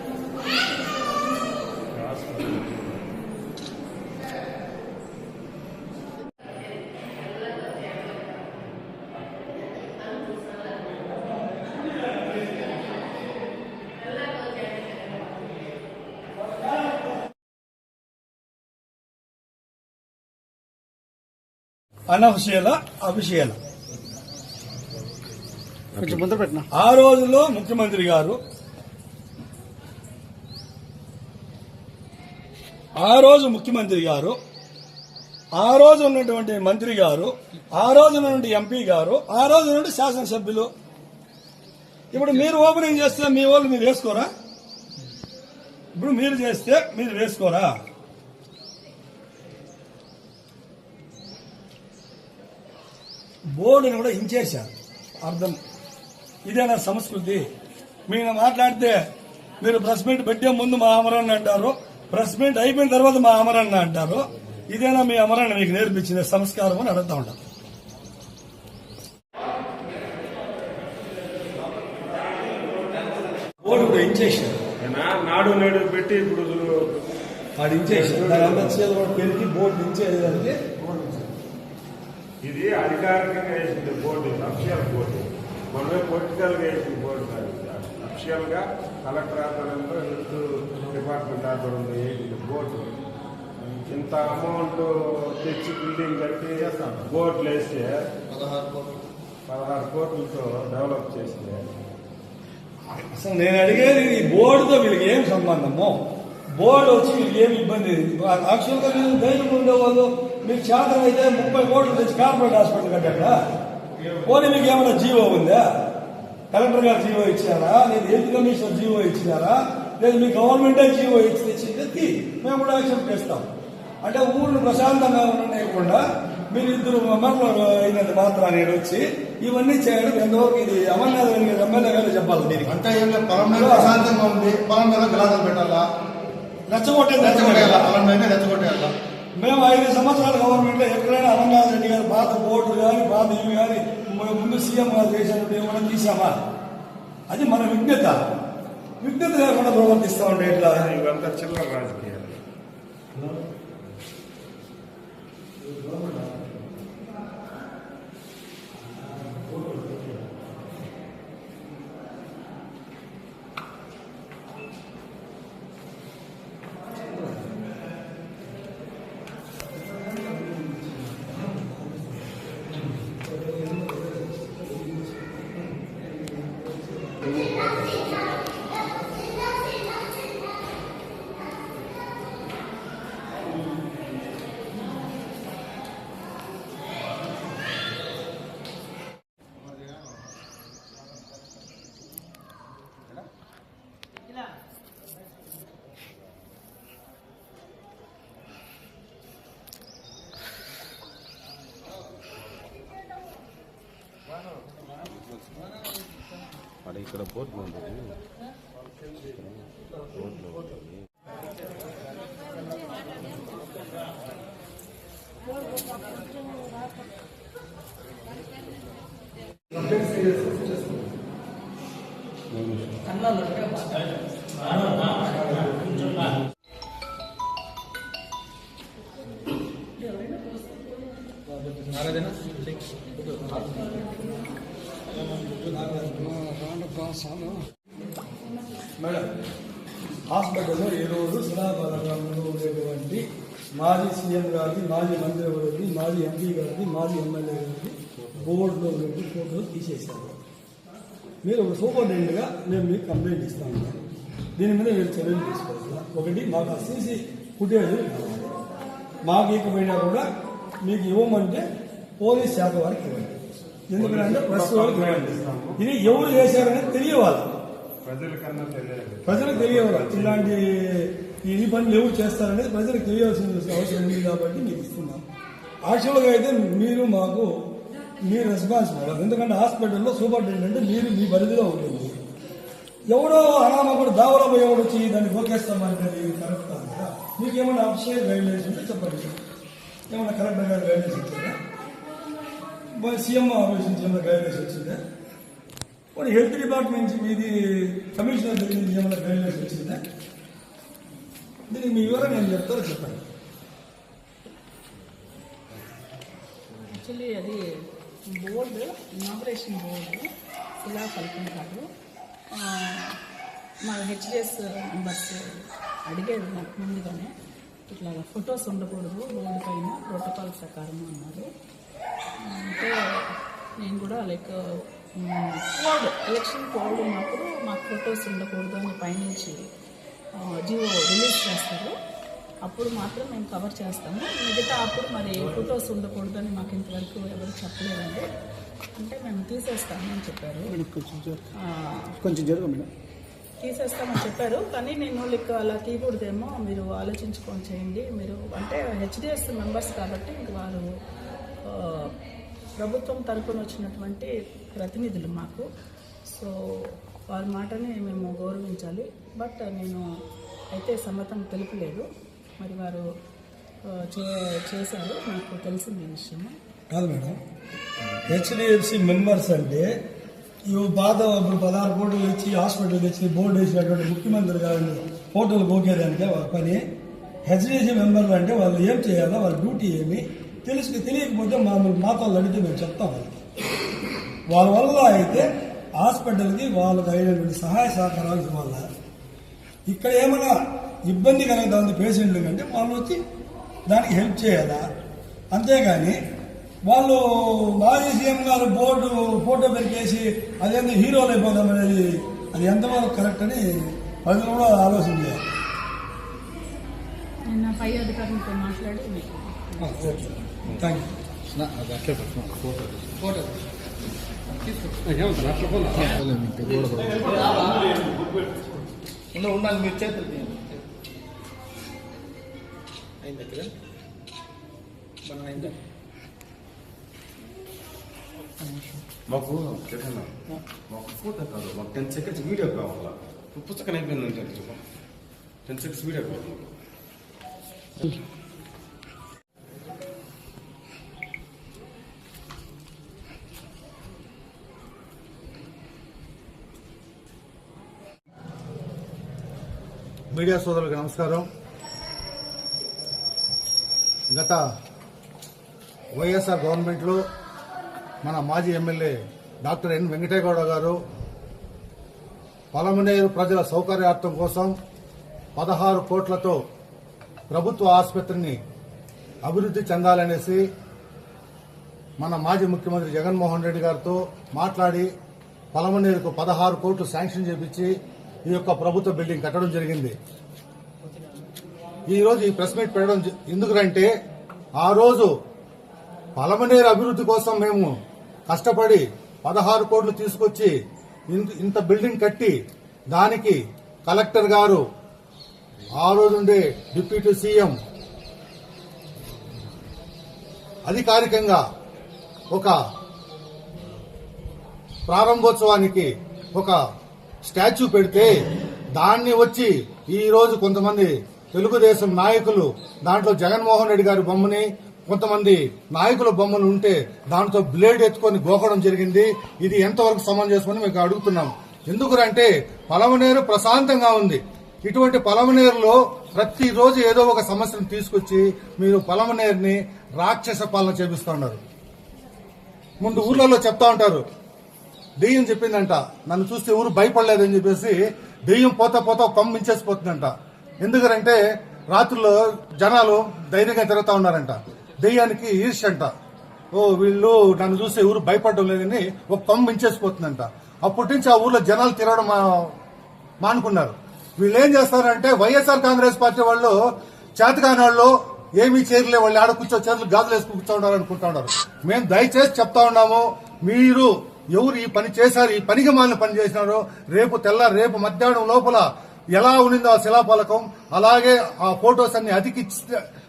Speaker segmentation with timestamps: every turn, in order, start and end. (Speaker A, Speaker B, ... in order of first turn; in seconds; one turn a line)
Speaker A: 1.9-3.0
Speaker B: 22.1-23.6
Speaker C: 26.0-26.3
Speaker D: 26.0-26.7
Speaker B: 26.7-28.4
Speaker B: 33.0-34.4
Speaker B: 35.5-40.7
Speaker B: 42.1-44.3
Speaker B: 46.0-47.8
Speaker B: 53.5-54.7
Speaker B: 55.2-55.6
Speaker B: 56.5-57.5
Speaker B: 58.1-59.0
Speaker B: 59.6-67.4
Speaker B: 73.6-74.6
Speaker A: 74.8-77.0
Speaker B: 77.6-80.6
Speaker A: 77.9-78.8
Speaker A: 80.8-81.3
Speaker A: 82.4-93.0
Speaker A: 93.6-98.5
Speaker A: 99.5-101.7
Speaker B: 102.9-106.0
Speaker B: 106.5-113.4
Speaker B: 114.2-115.7
Speaker B: 116.5-123.5
Speaker B: 124.0-132.8
Speaker E: 132.7-135.9
Speaker B: 133.6-134.0
Speaker B: 136.7-137.9
Speaker E: 137.2-138.9
Speaker B: 139.4-146.4
Speaker B: 147.3-148.2
Speaker B: 149.0-150.9
Speaker A: 150.6-152.4
Speaker B: 169.9-172.0
Speaker B: 173.1-175.1
Speaker C: 206.8-208.2
Speaker C: 209.2-211.0
Speaker A: 222.5-223.2
Speaker D: 223.3-224.0
Speaker D: 224.7-226.2
Speaker D: 231.6-234.2
Speaker B: 235.8-237.6
Speaker B: 239.0-239.3
Speaker B: 240.3-250.4
Speaker B: 251.4-254.0
Speaker B: 254.6-258.5
Speaker B: 259.2-260.3
Speaker B: 260.9-261.6
Speaker B: 262.2-263.4
Speaker B: 263.9-267.5
Speaker A: 264.0-266.8
Speaker A: 268.0-270.5
Speaker B: 269.2-275.2
Speaker B: 275.8-277.5
Speaker B: 278.2-282.2
Speaker B: 283.1-289.4
Speaker B: 290.1-291.6
Speaker B: 292.9-295.0
Speaker B: 296.1-300.0
Speaker B: 301.7-303.2
Speaker F: 306.9-307.6
Speaker F: 308.3-310.3
Speaker F: 310.8-311.9
Speaker F: 312.5-313.2
Speaker F: 313.8-317.3
Speaker F: 317.9-321.5
Speaker F: 322.4-329.6
Speaker F: 330.4-331.9
Speaker F: 332.6-338.3
Speaker F: 339.0-340.8
Speaker D: 340.7-341.4
Speaker F: 341.6-342.1
Speaker D: 342.2-342.9
Speaker F: 343.6-350.9
Speaker F: 351.6-352.1
Speaker F: 352.8-355.7
Speaker F: 356.3-360.1
Speaker F: 360.7-362.1
Speaker F: 362.6-363.1
Speaker F: 363.9-366.6
Speaker B: 366.9-367.4
Speaker B: 368.2-369.9
Speaker B: 370.7-376.8
Speaker B: 377.4-383.3
Speaker B: 384.5-388.9
Speaker B: 389.9-393.2
Speaker B: 393.9-394.9
Speaker B: 395.5-396.2
Speaker B: 396.9-405.4
Speaker F: 407.5-410.0
Speaker B: 409.8-411.1
Speaker D: 413.2-413.5
Speaker D: 414.9-417.9
Speaker C: 415.2-416.0
Speaker B: 417.0-418.1
Speaker D: 419.3-420.8
Speaker D: 423.2-423.7
Speaker D: 425.2-425.8
Speaker D: 428.6-429.0
Speaker C: 429.3-430.3
Speaker C: 430.9-434.8
Speaker C: 435.7-436.7
Speaker E: 450.3-451.5
Speaker E: 454.3-454.6
Speaker E: 456.2-457.2
Speaker E: 458.2-461.0
Speaker E: 462.7-464.7
Speaker E: 465.6-466.6
Speaker E: 467.5-468.6
Speaker E: 469.4-470.6
Speaker E: 472.2-475.1
Speaker E: 475.7-477.9
Speaker E: 478.5-480.1
Speaker E: 482.1-484.1
Speaker E: 484.8-485.3
Speaker E: 486.4-487.9
Speaker E: 488.5-490.7
Speaker E: 491.3-492.5
Speaker E: 493.1-494.8
Speaker E: 496.0-497.8
Speaker E: 500.9-501.6
Speaker E: 505.1-506.8
Speaker E: 507.4-508.5
Speaker E: 509.0-531.6
Speaker E: 533.0-534.2
Speaker E: 535.2-540.3
Speaker E: 540.8-541.4
Speaker E: 541.9-546.1
Speaker E: 546.8-552.7
Speaker E: 553.4-556.8
Speaker E: 557.4-573.0